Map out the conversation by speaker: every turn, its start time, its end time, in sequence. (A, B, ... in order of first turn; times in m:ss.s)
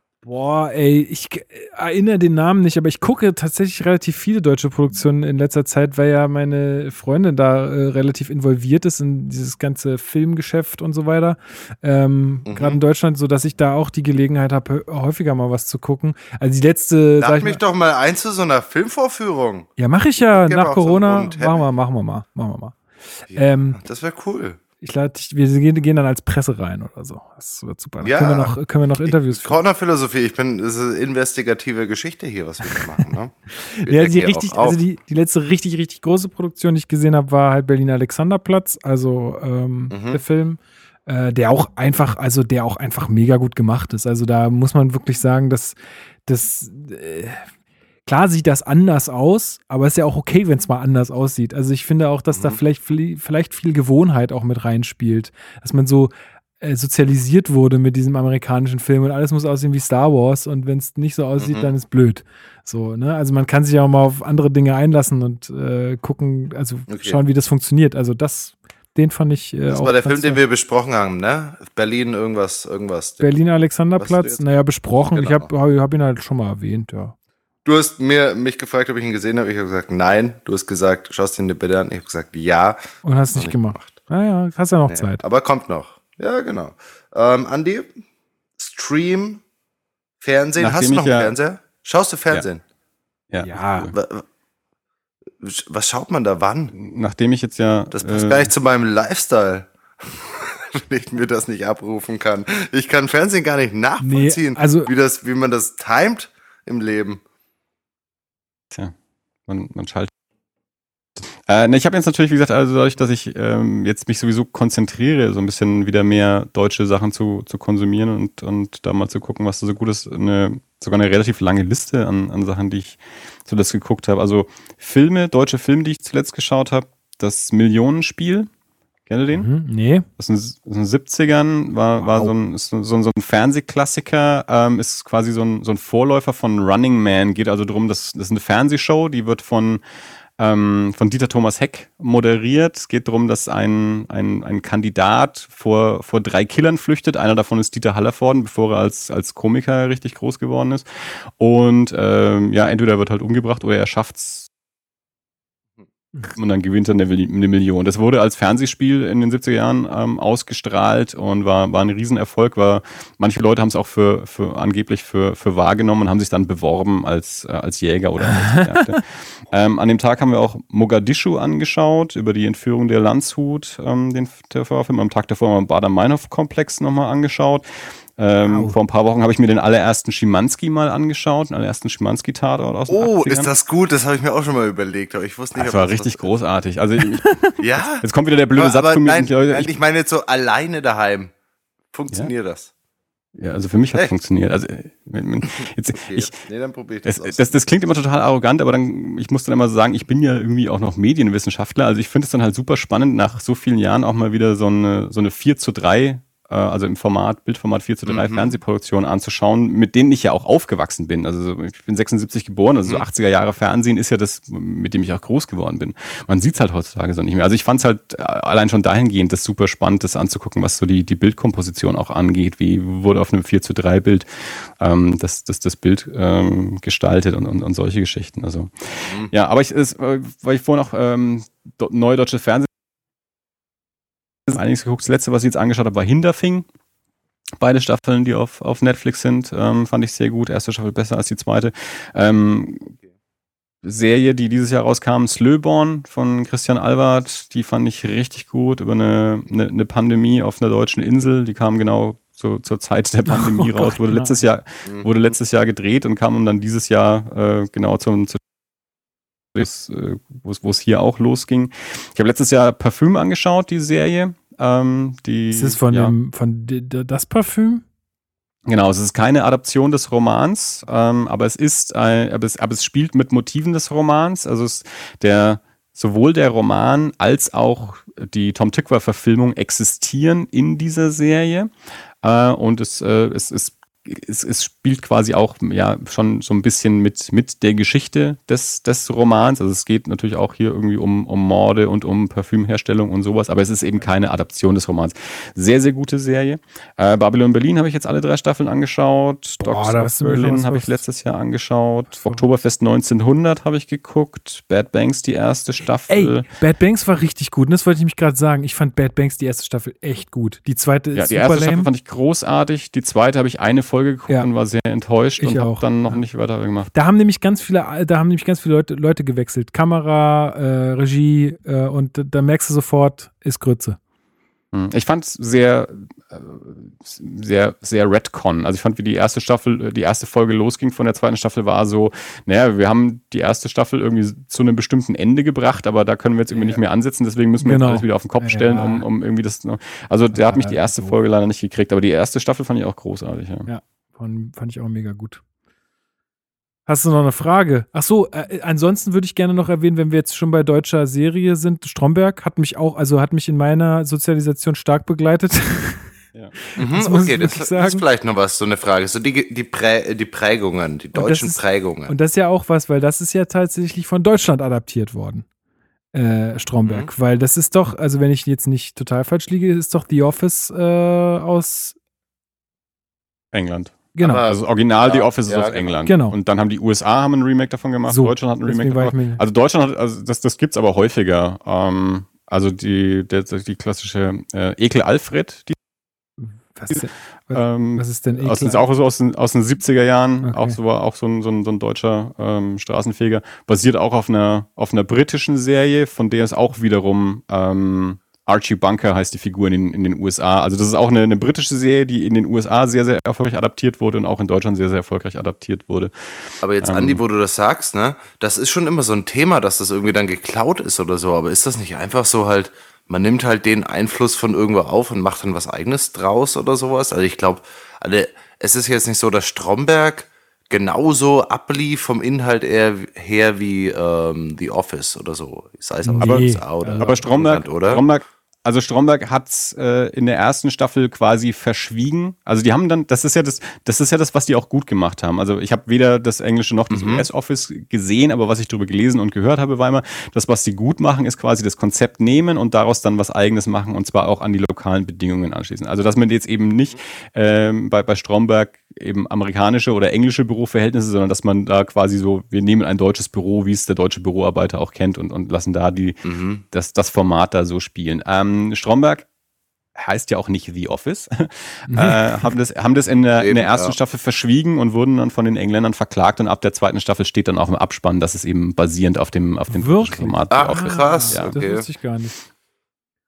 0:00.2-0:17.6 A
0:12.5-0:12.8 B
0:17.2-0:19.7 B
0:19.8-0:22.8 A
0:20.3-0:21.6 B
0:23.3-0:24.6 B
0:23.3-0:23.8 A
0:24.8-0:29.6 A
0:28.0-0:34.8 B
0:33.6-0:47.5 A
0:39.9-0:40.2 B
0:48.1-1:10.4 A
0:52.3-0:52.6 B
1:01.4-1:01.7 B
1:06.9-1:07.2 B
1:09.7-1:13.3 B
1:13.2-1:17.2 A
1:14.0-1:14.4 B
1:15.1-1:15.5 B
1:17.6-1:22.8 B
1:23.0-1:25.2 A
1:23.4-1:24.0 B
1:24.9-1:27.9 B
1:28.6-1:29.4 B
1:30.2-1:32.6 B
1:30.6-1:31.3 C
1:33.3-1:33.9 C
1:33.4-1:33.9 A
1:33.9-1:34.2 B
1:35.4-1:36.7 B
1:36.7-1:38.5 C
1:37.9-1:47.2 B
1:44.0-1:44.9 A
1:49.5-1:50.1 C
1:51.5-2:08.5 C
2:09.1-2:09.5 C
2:09.3-2:10.0 A
2:10.2-2:19.8 C
2:12.0-2:12.3 A
2:20.4-2:34.5 C
2:36.3-3:03.5 C
2:48.3-2:49.0 A
2:58.4-2:58.8 A
3:02.9-3:06.3 B
3:05.6-3:07.3 C
3:07.2-3:07.5 A
3:07.6-3:11.3 B
3:07.8-3:09.7 C
3:11.9-3:12.7 B
3:13.4-3:16.3 C
3:16.0-3:17.5 B
3:17.0-3:52.7 C
3:28.1-3:28.6 B
3:54.5-3:56.7 C
3:57.6-4:02.9 C
4:03.8-4:18.4 C
4:13.3-4:14.4 A
4:19.6-4:26.1 C
4:25.5-4:27.8 A
4:28.7-4:41.7 C
4:42.2-5:06.5 C
4:59.6-5:01.0 A
5:06.1-5:11.9 A
5:11.2-5:16.9 C
5:15.4-5:16.2 A
5:16.9-5:24.0 A
5:24.7-5:43.7 C
5:36.5-5:36.8 A
5:37.6-5:39.0 A
5:40.3-5:41.2 A
5:43.7-5:45.4 A
5:46.9-5:56.1 A
5:56.7-5:58.0 A
5:56.8-6:02.1 B
6:01.1-6:05.4 A
6:06.1-6:12.0 A
6:06.8-6:07.1 B
6:13.5-6:25.8 C
6:14.2-6:14.4 A
6:14.2-6:15.9 B
6:16.1-6:16.4 A
6:18.1-6:19.4 A
6:26.4-6:28.8 A
6:27.5-6:46.1 C
6:30.4-6:30.8 A
6:46.6-7:08.0 B
6:46.8-6:47.2 C
7:06.0-7:07.2 A
7:07.0-7:39.3 C
7:16.9-7:17.3 B
7:36.2-7:36.6 B
7:40.0-7:51.6 C
7:41.9-7:42.5 A
7:43.4-7:44.0 B
7:49.7-7:52.4 A
7:50.5-7:51.9 B